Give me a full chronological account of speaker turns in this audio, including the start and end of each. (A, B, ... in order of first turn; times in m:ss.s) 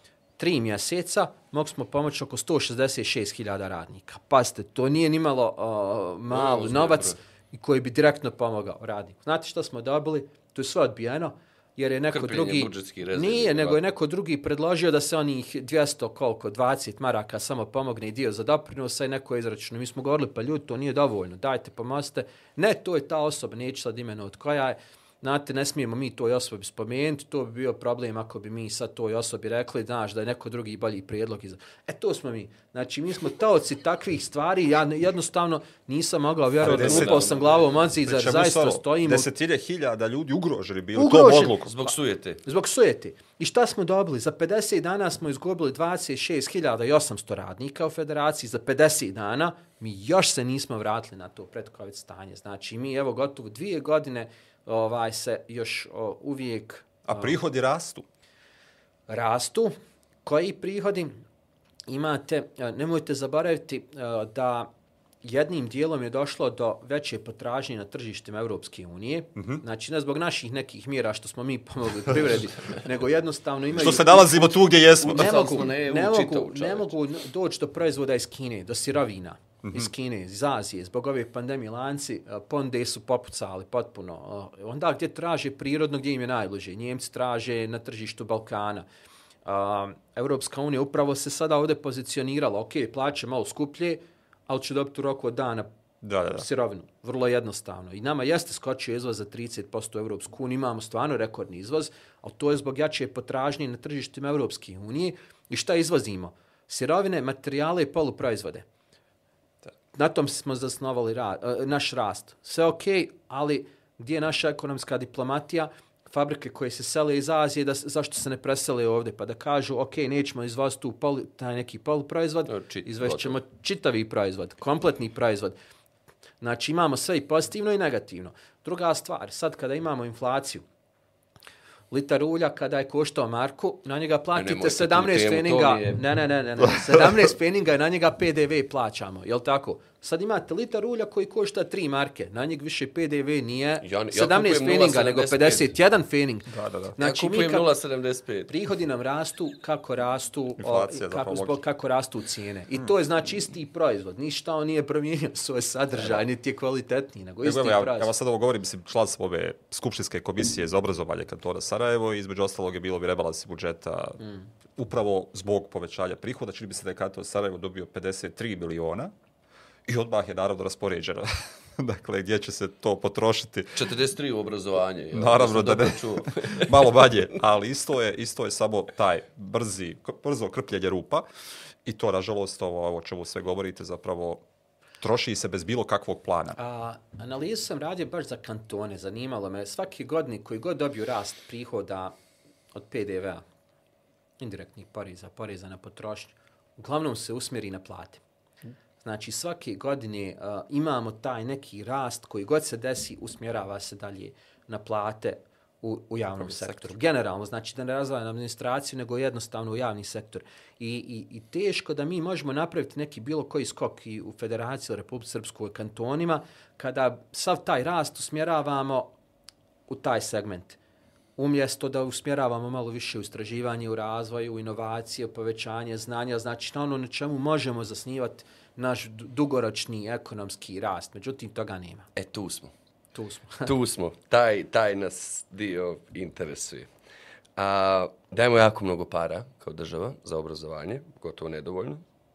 0:00.4-0:39.3 A
0:06.3-0:07.2 B
0:12.1-0:13.8 B
0:36.6-0:37.5 B
0:36.6-0:37.3 C
0:38.0-0:41.7 C
0:41.0-0:41.9 A
0:41.7-0:42.4 B
0:42.4-0:57.4 A
0:57.1-0:58.0 C
0:59.1-0:59.7 A
1:00.2-1:01.2 A
1:01.9-1:04.7 A
1:05.2-1:28.9 A
1:09.4-1:09.6 C
1:13.7-1:15.5 C
1:15.1-1:16.9 B
1:19.6-1:19.9 C
1:29.4-1:35.7 A
1:36.0-1:36.4 C
1:36.3-1:48.6 A
1:49.9-2:05.6 A
2:02.5-2:03.4 B
2:06.4-2:10.6 A
2:11.9-2:27.7 A
2:14.4-2:16.0 B
2:23.8-2:25.7 B
2:26.5-2:27.0 C
2:27.0-2:28.5 B
2:28.5-2:38.1 A
2:30.6-2:31.6 C
2:37.4-2:44.2 C
2:44.2-2:44.5 A
2:44.8-2:49.1 C
2:49.9-2:53.9 C
2:53.8-2:57.1 B
2:55.1-3:01.2 C
3:01.8-3:04.4 C
3:05.0-3:06.6 C
3:06.6-3:12.1 A
3:12.8-3:13.4 A
3:14.4-3:18.2 A
3:19.0-3:39.1 A
3:26.4-3:26.9 C
3:39.9-3:40.8 A
3:41.4-3:52.1 A
3:52.2-3:52.7 B
3:53.1-3:53.7 A
3:53.6-3:56.9 B
3:57.6-4:02.0 B